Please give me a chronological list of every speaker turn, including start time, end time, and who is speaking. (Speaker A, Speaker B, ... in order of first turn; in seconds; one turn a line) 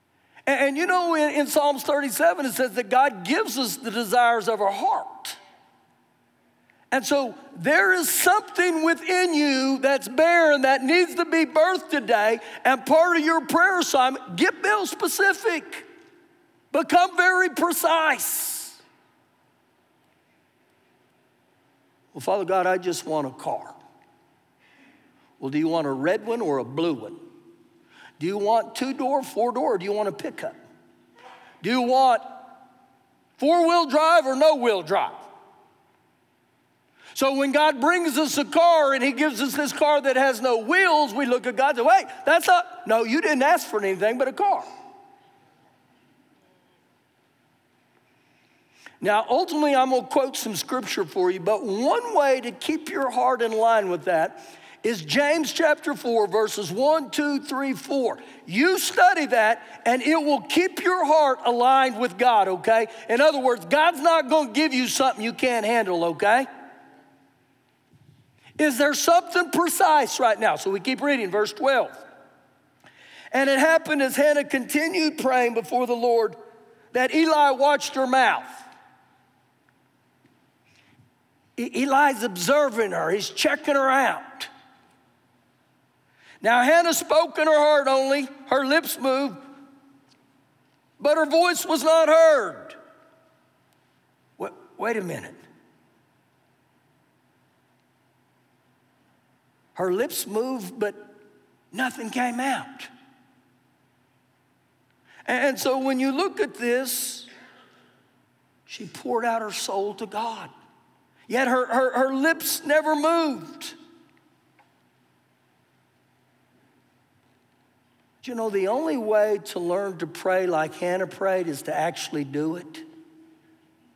Speaker A: 0.5-5.4
Speaker A: 6.9-15.9
Speaker A: 16.7-18.8
Speaker A: 22.1-23.8
Speaker A: 25.4-27.2
Speaker A: 28.2-30.6
Speaker A: 31.6-32.5
Speaker A: 33.4-35.3
Speaker A: 37.1-44.6
Speaker A: 49.0-66.5
Speaker A: 68.6-72.0
Speaker A: 73.3-76.4
Speaker A: 76.9-78.7
Speaker A: 81.6-84.5
Speaker A: 86.4-89.4
Speaker A: 91.0-92.8
Speaker A: 94.4-95.4
Speaker A: 99.8-101.1
Speaker A: 101.7-102.9
Speaker A: 105.3-107.3
Speaker A: 108.7-110.5
Speaker A: 111.3-113.8
Speaker A: 118.2-122.8